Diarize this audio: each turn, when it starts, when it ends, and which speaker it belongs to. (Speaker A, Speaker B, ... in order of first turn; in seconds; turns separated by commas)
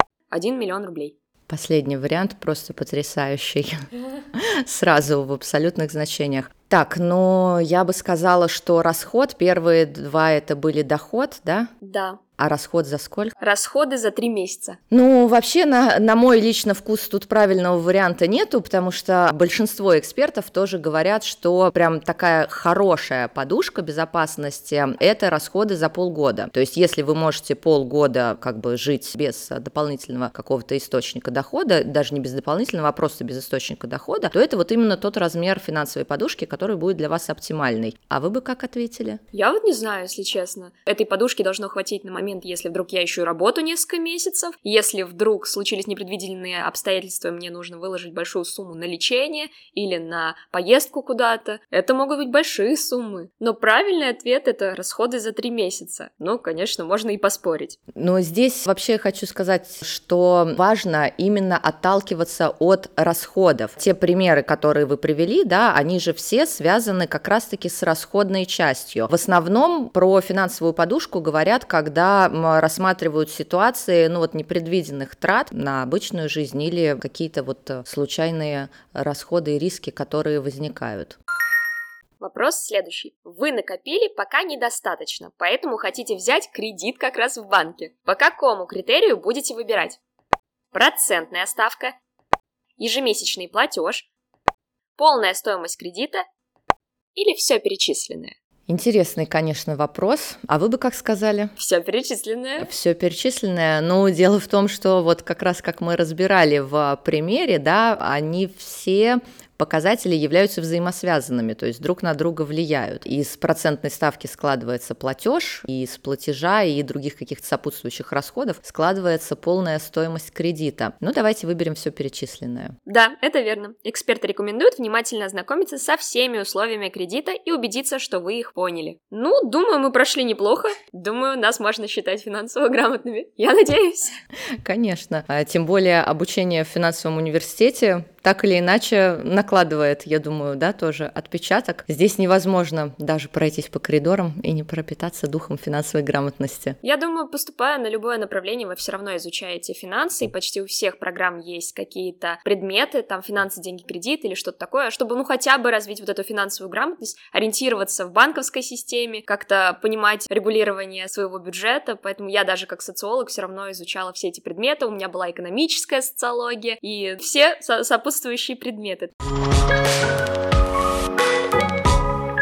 Speaker A: 0.3-1.1, Speaker B: 1.5-11.7, Speaker A: 11.8-12.2, Speaker B: 12.4-13.3, Speaker A: 13.4-14.8, Speaker B: 14.9-39.2, Speaker A: 39.3-57.8, Speaker B: 58.0-81.2, Speaker A: 82.2-90.0, Speaker A: 90.7-92.0, Speaker A: 92.8-94.1, Speaker A: 95.0-96.2, Speaker A: 97.2-98.3, Speaker B: 98.7-101.5, Speaker A: 101.6-102.7, Speaker B: 102.6-122.8, Speaker A: 122.9-134.2, Speaker B: 134.6-146.8, Speaker A: 146.8-169.1